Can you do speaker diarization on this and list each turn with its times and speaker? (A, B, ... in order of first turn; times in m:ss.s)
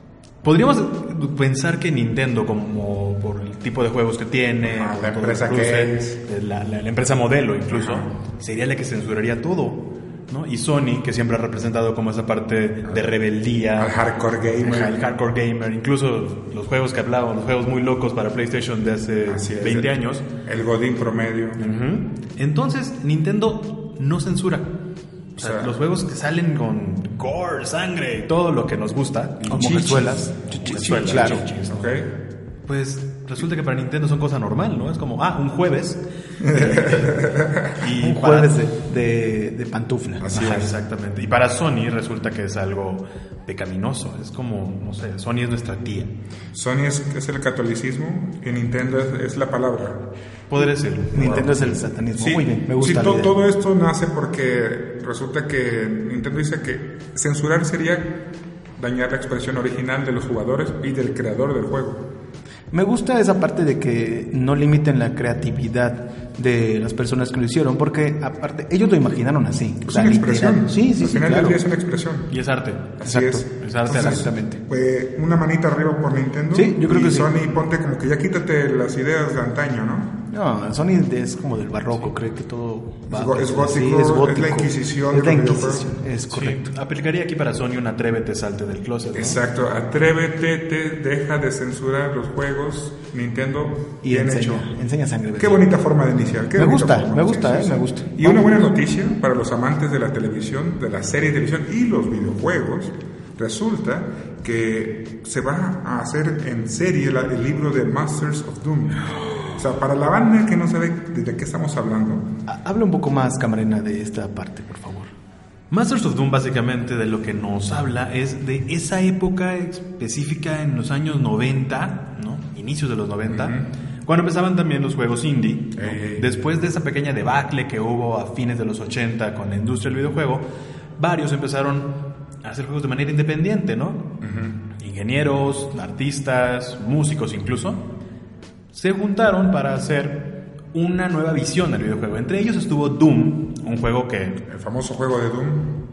0:00.4-0:13.9 A
0:04.6-0:06.2 B
0:07.7-0:08.1 B
0:13.7-0:15.0 B
0:14.6-0:20.2 A
0:19.2-0:19.9 B
0:20.4-0:21.6 B
0:21.6-0:24.7 A
0:25.4-0:31.9 A
0:25.4-0:25.7 B
0:29.4-0:32.1 B
0:29.5-0:31.4 C
0:32.7-0:36.0 A
0:36.4-0:37.8 B
0:36.6-0:37.0 A
0:37.8-0:38.5 A
0:37.8-0:40.6 C
0:40.2-0:40.7 B
0:40.3-0:46.1 A
0:46.5-0:50.0 B
0:50.5-0:51.6 A
0:51.1-0:53.3 C
0:51.1-0:58.1 B
0:58.8-1:02.0 B
1:02.7-1:11.6 C
1:09.8-1:12.3 B
1:12.3-1:13.0 A
1:13.0-1:20.1 B
1:13.0-1:14.6 C
1:13.5-1:14.3 A
1:16.5-1:17.3 C
1:20.3-1:26.7 C
1:23.1-1:25.9 B
1:26.3-1:29.4 A
1:29.1-1:34.7 B
1:34.0-1:35.6 C
1:35.4-1:52.2 B
1:36.6-1:38.6 C
1:52.5-1:55.1 C
1:55.7-2:10.4 A
2:03.3-2:03.7 B
2:05.8-2:06.3 B
2:11.0-2:11.9 A
2:12.4-2:14.0 A
2:14.2-2:14.6 B
2:14.8-2:17.8 A
2:18.7-2:20.2 A
2:20.7-2:24.4 A
2:24.4-2:25.7 B